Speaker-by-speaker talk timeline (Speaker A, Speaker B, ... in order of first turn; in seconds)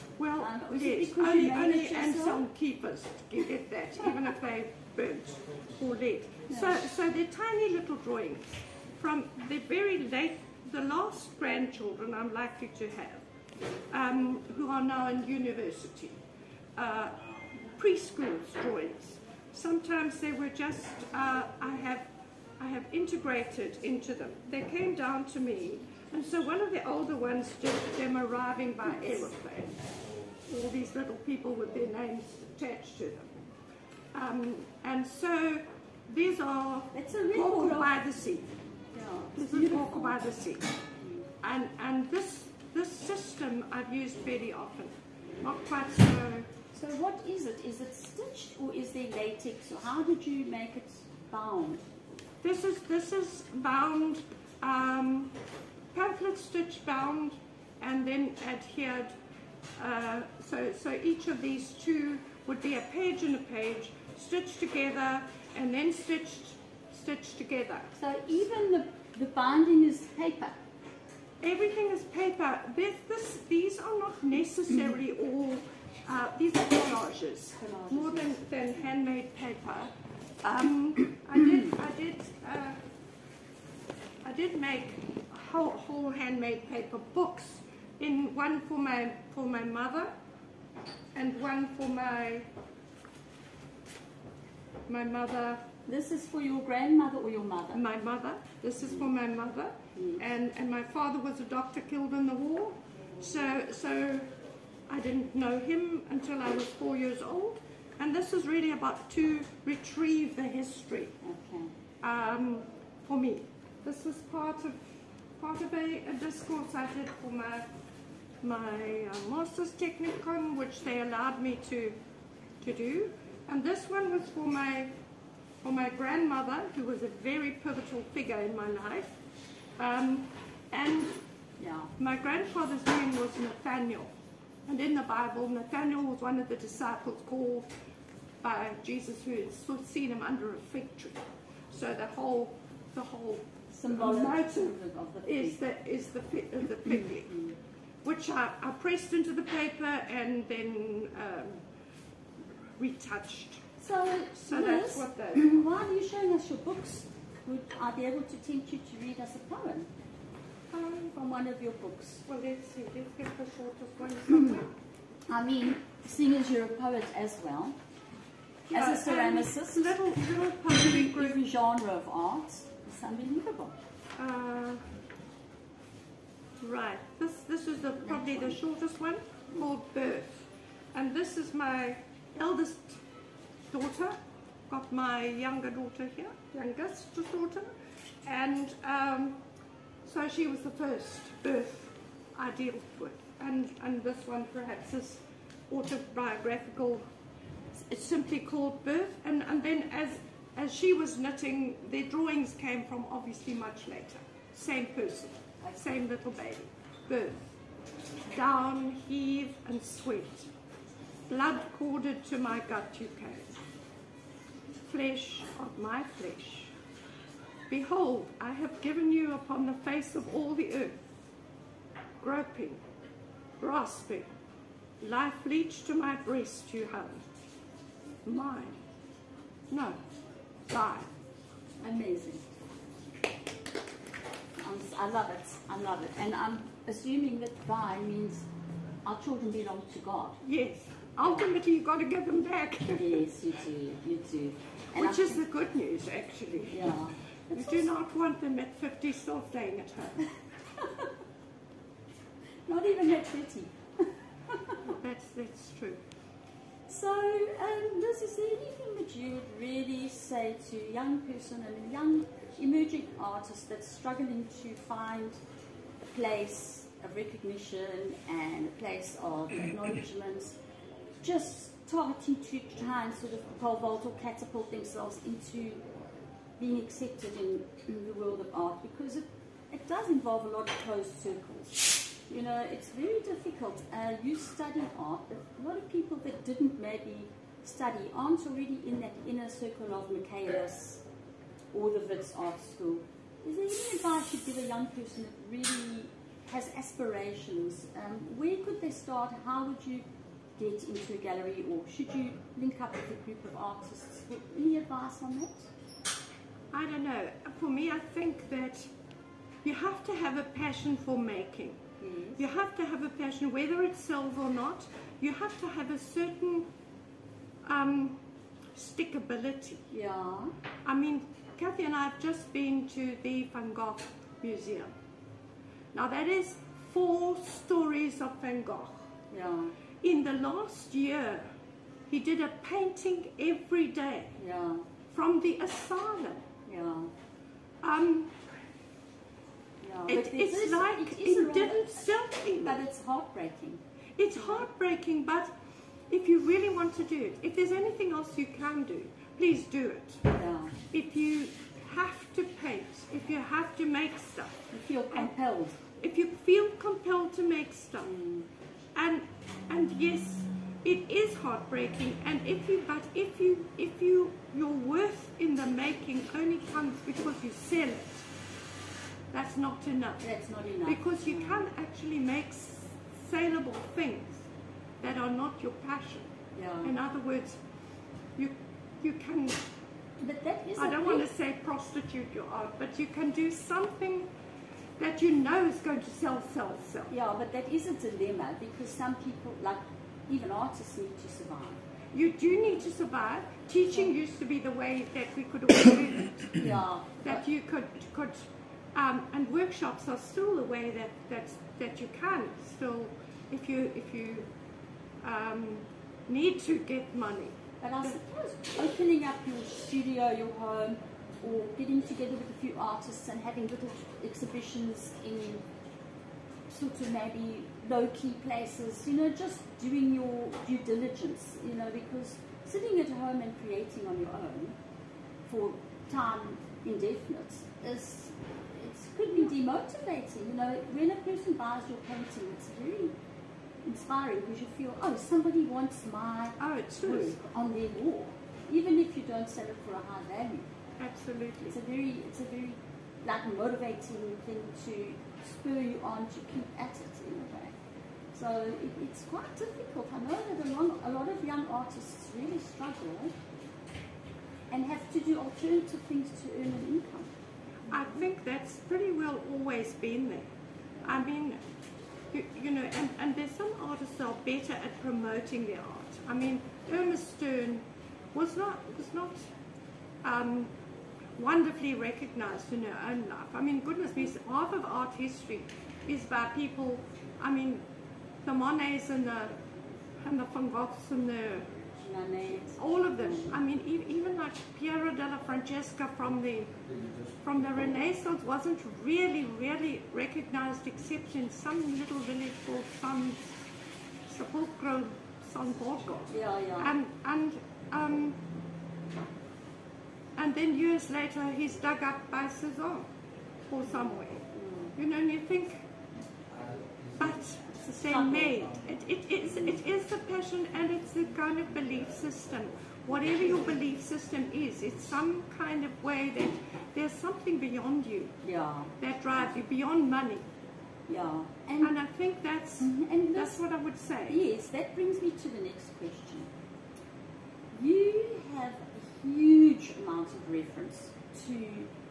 Speaker A: 0.2-13.3, 13.9-16.2, 16.8-22.1, 22.6-29.8, 30.5-33.4, 34.1-38.5, 39.4-40.8, 41.4-46.5, 52.4-55.4, 55.9-59.2, 59.8-67.9, 71.4-79.9, 80.4-82.8, 84.2-90.1, 91.1-92.5, 94.9-95.6, 97.7-104.3, 104.9-111.2, 112.0-114.8, 115.4-117.7, 118.4-122.0, 122.6-124.9, 125.6-129.2, 129.8-131.2, 132.0-134.1, 134.7-137.7, 138.4-147.4, 148.0-151.6, 152.8-153.7, 154.3-155.6, 160.7-161.1, 162.3-164.7, 168.7-171.4, 174.2-174.9, 176.6-183.0, 183.7-184.2, 184.7-187.7, 188.2-189.4, 190.0-197.1, 197.8-207.5, 208.2-210.5, 211.3-213.6, 214.8-216.7, 217.7-221.0, 222.2-222.8, 223.6-224.3, 225.0-227.2, 228.2-228.8, 229.7-230.0, 230.7-231.1, 240.4-243.2, 244.9-250.2, 254.8-256.0, 306.7-308.9, 309.6-311.8, 312.4-316.7, 317.6-319.9, 320.9-324.9, 325.9-329.1, 330.0-331.5, 332.1-334.4, 335.1-336.5, 337.8-338.4, 340.1-342.8, 344.2-345.5, 346.1-350.2, 350.9-355.3, 356.0-358.1, 358.9-368.3, 369.3-370.2, 370.9-374.5, 375.0-377.6, 378.4-379.6, 380.8-384.3, 385.0-387.1, 392.1-396.6, 397.2-404.5, 405.2-408.1, 436.6-437.4, 441.0-441.8, 457.9-461.6, 462.3-469.4, 470.2-470.7, 471.4-477.9, 478.4-479.6, 480.2-481.8, 482.8-493.4, 494.3-498.4, 500.4-503.1, 503.7-505.8, 507.2-518.4, 519.0-520.5, 521.8-524.4
Speaker B: 0.4-2.5, 6.5-6.8, 28.9-29.3, 36.9-38.0, 38.9-40.2, 41.0-41.3, 46.7-51.8, 68.0-70.6, 77.6-78.4, 95.9-97.8, 100.0-100.2, 111.2-111.7, 131.6-131.9, 143.7-145.6, 147.3-147.5, 153.8-159.9, 161.1-162.2, 164.3-164.6, 165.3-167.8, 168.7-173.8, 178.1-178.6, 231.8-232.4, 234.6-238.5, 239.0-240.4, 242.9-245.4, 246.7-247.9, 250.8-251.1, 252.7-254.9, 256.9-265.4, 266.0-270.6, 271.2-275.8, 276.6-291.0, 291.7-300.0, 300.6-305.7, 312.0-312.4, 319.9-320.5, 329.3-329.8, 334.4-334.9, 336.6-337.1, 339.8-342.1, 342.6-343.8, 344.4-344.7, 350.3-350.8, 354.7-355.8, 358.0-358.5, 370.2-371.6, 376.6-376.9, 380.2-381.3, 387.1-391.8, 396.6-397.5, 407.8-415.6, 416.7-424.8, 425.5-433.1, 433.8-440.7, 441.7-447.8, 448.3-453.3, 454.7-457.3, 482.0-483.5, 496.3-496.9, 503.9-504.9, 507.7-508.6, 518.4-519.5, 521.1-522.0, 522.8-523.6, 524.3-526.5, 527.7-531.9